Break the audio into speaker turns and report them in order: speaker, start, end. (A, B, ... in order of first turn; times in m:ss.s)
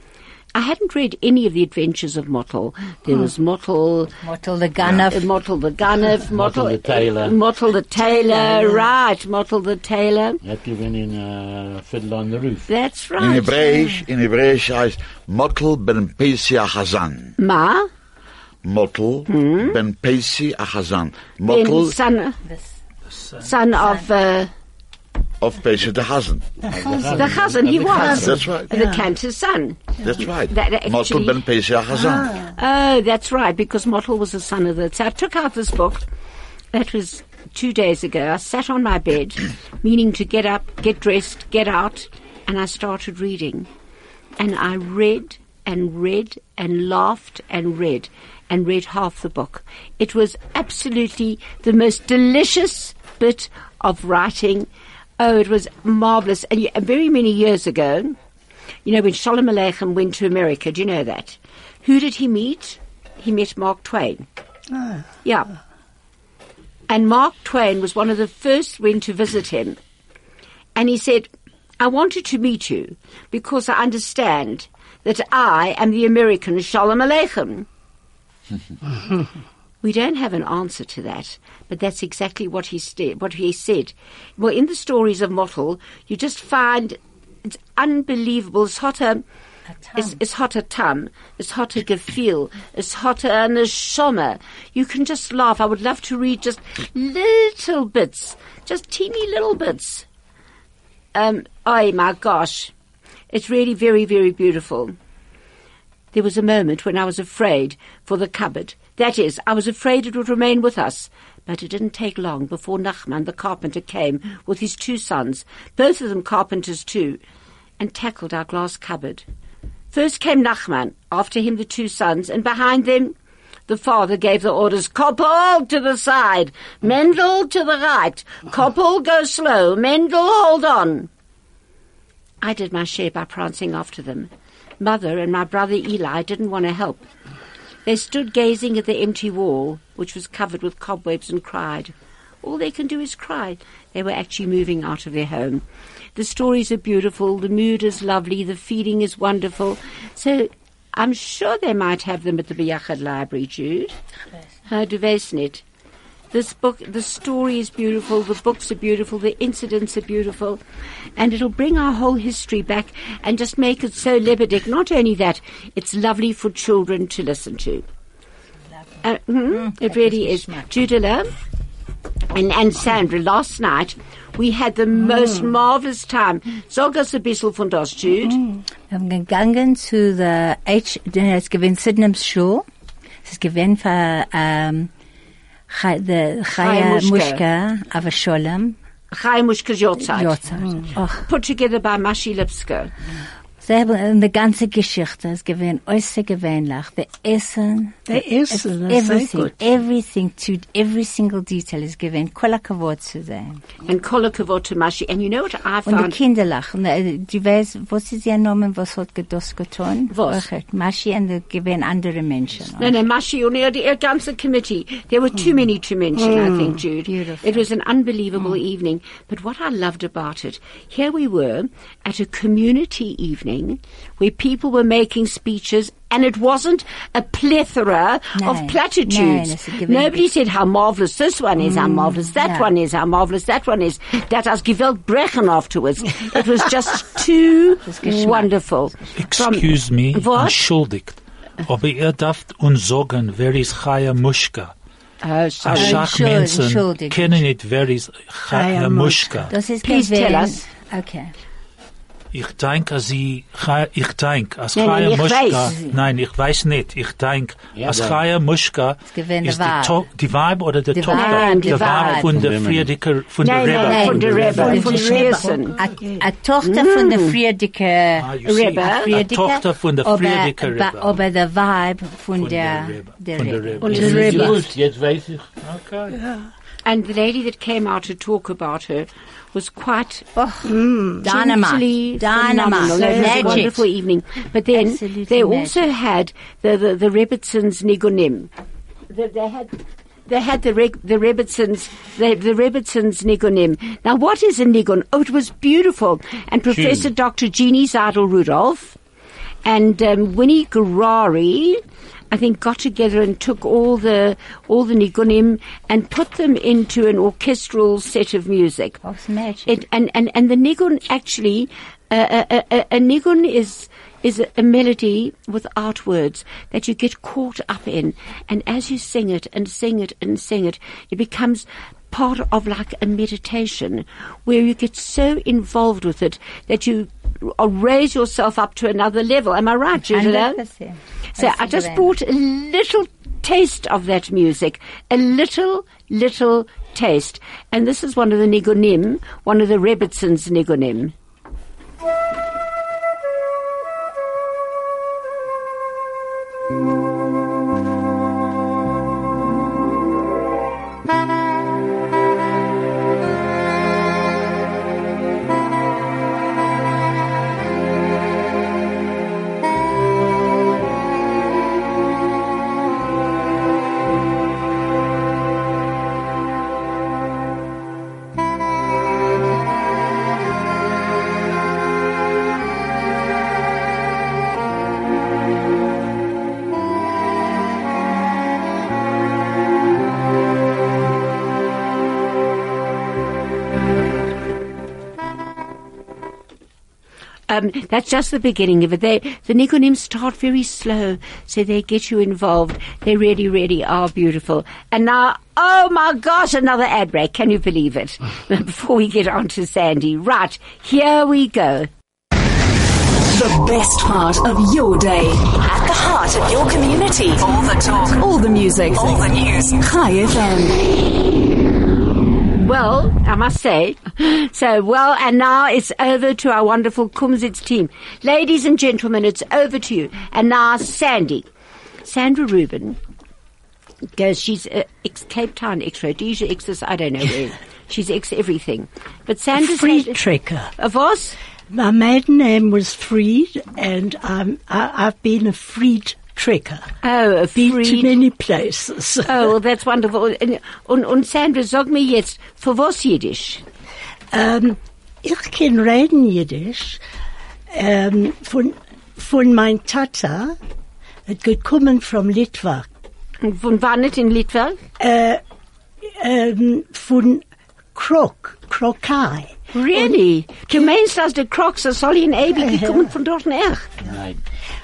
0:00.5-0:04.1 A
0:04.2-0:05.3 B
0:05.1-0:10.4 A
0:06.2-0:07.4 C
0:08.1-0:08.7 B
0:10.4-0:12.7 C
0:12.7-0:13.8 A
0:13.2-0:17.4 D
0:17.4-0:17.9 A
0:18.6-0:22.0 D
0:19.3-0:19.8 A
0:21.5-0:22.4 A
0:23.1-0:23.5 E
0:23.4-0:24.5 A
0:25.4-0:26.6 D
0:26.7-0:28.4 C
0:27.2-0:31.4 A
0:27.9-0:29.0 F
0:28.1-0:28.9 D
0:30.0-0:32.4 D
0:32.0-0:32.4 F
0:32.4-0:36.1 A
0:36.7-0:43.7 A
0:44.4-0:54.7 A
0:55.2-0:58.2 A
0:58.8-1:04.3 A
1:04.7-1:05.0 F
1:05.2-1:05.5 A
1:06.9-1:09.8 A
1:10.8-1:11.3 A
1:11.8-1:17.7 A
1:19.8-1:29.2 A
1:29.8-1:30.2 B
1:30.0-1:40.1 A
1:41.2-1:42.7 A
1:43.3-1:45.0 A
1:46.1-1:57.2 A
1:57.8-1:59.2 A
1:59.9-2:03.1 A
2:03.7-2:11.1 A
2:12.4-2:14.3 A
2:14.8-2:17.1 A
2:17.9-2:25.6 A
2:26.2-2:34.0 A
2:34.7-2:35.6 A
2:36.3-2:40.6 A
2:41.2-2:47.8 A
2:49.0-2:51.3 A
2:49.5-2:50.7 B
2:52.3-2:58.4 A
2:58.9-3:02.6 B
3:03.2-3:04.9 B
3:05.7-3:08.8 B
3:06.5-3:07.4 A
3:09.1-3:10.4 A
3:10.1-3:11.3 B
3:11.3-3:12.9 A
3:13.6-3:23.6 B
3:18.1-3:19.6 F
3:23.8-3:26.2 A
3:25.9-3:33.0 B
3:30.1-3:30.5 A
3:32.8-4:00.6 A
3:37.0-3:37.7 B
3:48.4-3:50.2 B
3:51.8-3:52.7 B
3:57.9-3:58.5 B
3:59.2-4:04.7 E
4:05.2-4:06.0 A
4:05.6-4:09.5 E
4:05.8-4:07.4 B
4:08.5-4:09.5 F
4:09.5-4:11.3 B
4:09.8-4:10.6 A
4:12.3-4:25.9 E
4:14.8-4:15.7 A
4:15.7-4:16.0 B
4:17.8-4:18.2 C
4:19.1-4:20.0 B
4:20.9-4:22.3 B
4:21.1-4:22.2 A
4:22.3-4:22.9 C
4:23.4-4:25.8 A
4:23.7-4:34.6 B
4:24.2-4:24.7 C
4:24.4-4:26.2 F
4:26.6-4:27.4 A
4:28.2-4:31.2 E
4:28.4-4:29.1 A
4:32.4-4:34.5 E
4:33.9-4:34.6 F
4:33.9-4:35.5 C
4:35.6-4:36.2 E
4:36.1-4:36.5 F
4:36.8-4:40.3 A
4:40.4-4:43.8 B
4:40.6-4:41.3 F
4:41.2-4:48.5 A
4:42.8-4:43.7 F
4:44.7-4:45.9 B
4:49.1-4:49.8 A
4:50.3-4:59.0 A
4:56.7-4:57.1 C
4:59.6-5:09.0 A
5:09.0-5:09.7 B
5:09.7-5:30.6 A
5:30.1-5:32.1 B
5:31.4-5:41.1 A
6:27.5-6:41.9 A
6:43.3-6:50.8 G
6:52.5-7:01.5 A
7:02.0-7:03.0 A
7:04.2-7:10.2 A
7:09.6-7:10.7 F
7:10.8-7:11.4 A
7:11.7-7:16.9 F
7:17.0-7:18.2 A
7:17.6-7:19.5 F
7:19.2-7:23.6 A
7:24.3-7:27.0 F
7:27.7-7:30.6 F
7:31.3-7:32.9 F
7:33.4-7:34.8 A
7:35.0-7:35.4 F
7:36.0-7:37.4 F
7:38.0-7:40.1 F
7:39.7-7:43.9 A
7:42.5-7:43.1 F
7:44.0-7:44.4 C